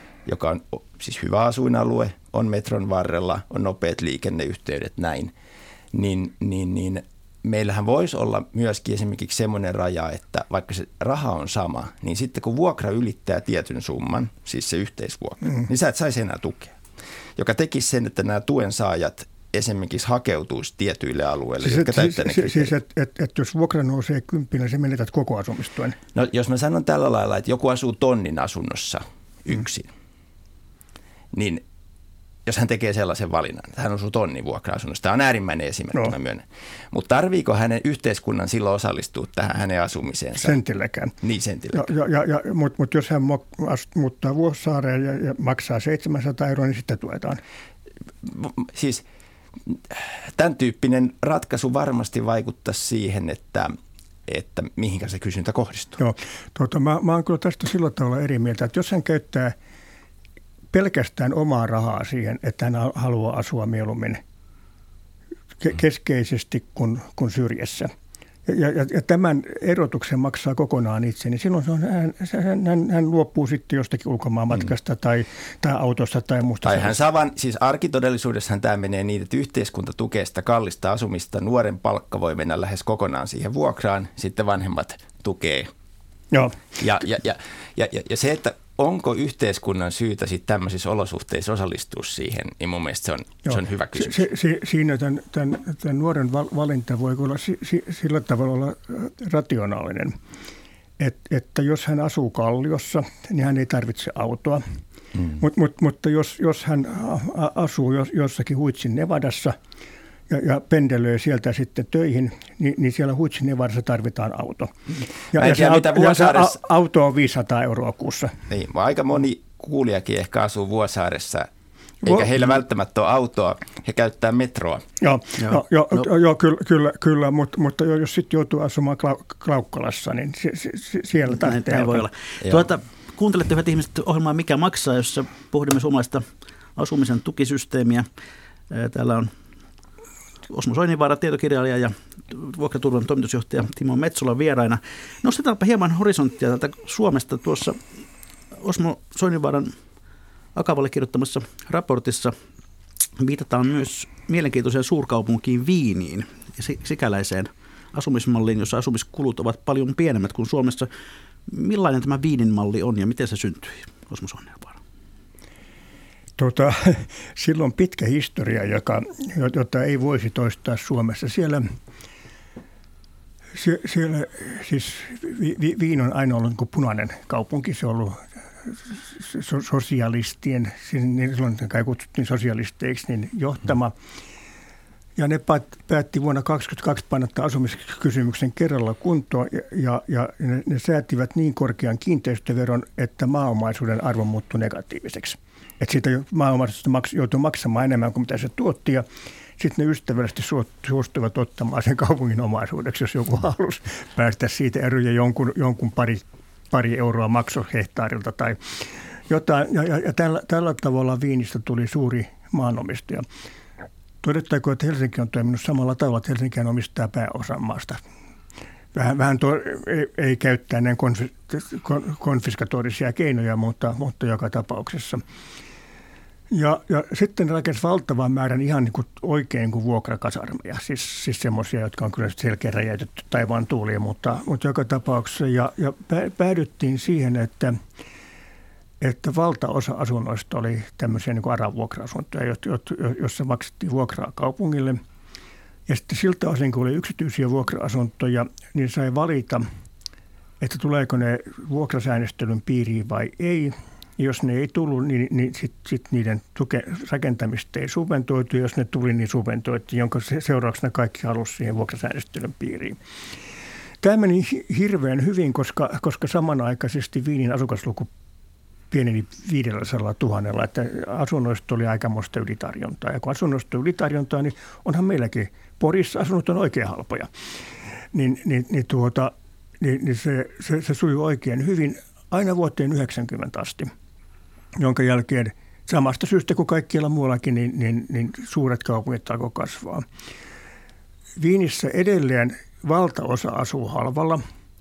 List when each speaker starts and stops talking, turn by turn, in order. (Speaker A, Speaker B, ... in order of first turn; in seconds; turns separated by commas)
Speaker A: 0.3-5.3, Speaker A: 5.9-16.8, Speaker A: 17.4-22.7, Speaker B: 21.6-26.0, Speaker A: 26.1-29.9, Speaker A: 31.3-31.6, Speaker A: 32.5-40.6, Speaker B: 40.4-41.1, Speaker A: 41.2-41.9, Speaker B: 41.7-47.4, Speaker A: 48.2-49.0, Speaker A: 49.7-53.7, Speaker A: 54.3-56.0, Speaker B: 56.0-59.5, Speaker B: 60.7-64.2, Speaker B: 65.6-67.9, Speaker B: 68.5-77.0, Speaker A: 76.6-85.7, Speaker B: 86.3-86.6, Speaker A: 86.8-94.3, Speaker B: 93.5-100.2, Speaker B: 101.0-104.8, Speaker B: 105.4-109.6, Speaker B: 110.3-114.7, Speaker B: 115.3-118.3, Speaker A: 115.3-116.6, Speaker A: 118.5-121.5, Speaker A: 122.0-124.8, Speaker B: 125.0-132.1, Speaker C: 131.4-136.2, Speaker C: 136.8-138.1, Speaker C: 138.7-139.3, Speaker C: 140.5-147.8, Speaker C: 148.6-149.7, Speaker C: 150.6-152.3, Speaker C: 153.2-160.9, Speaker C: 161.5-164.8, Speaker B: 166.4-171.7, Speaker B: 173.6-183.9, Speaker B: 185.2-199.1, Speaker B: 199.6-208.6, Speaker B: 209.3-213.2, Speaker B: 214.2-218.0, Speaker B: 218.9-225.2, Speaker B: 226.5-237.8, Speaker B: 239.0-245.0, Speaker B: 245.9-249.6, Speaker B: 250.6-263.0, Speaker B: 264.0-268.1, Speaker B: 268.9-277.3, Speaker B: 278.1-283.9, Speaker B: 284.8-290.0, Speaker B: 291.4-294.4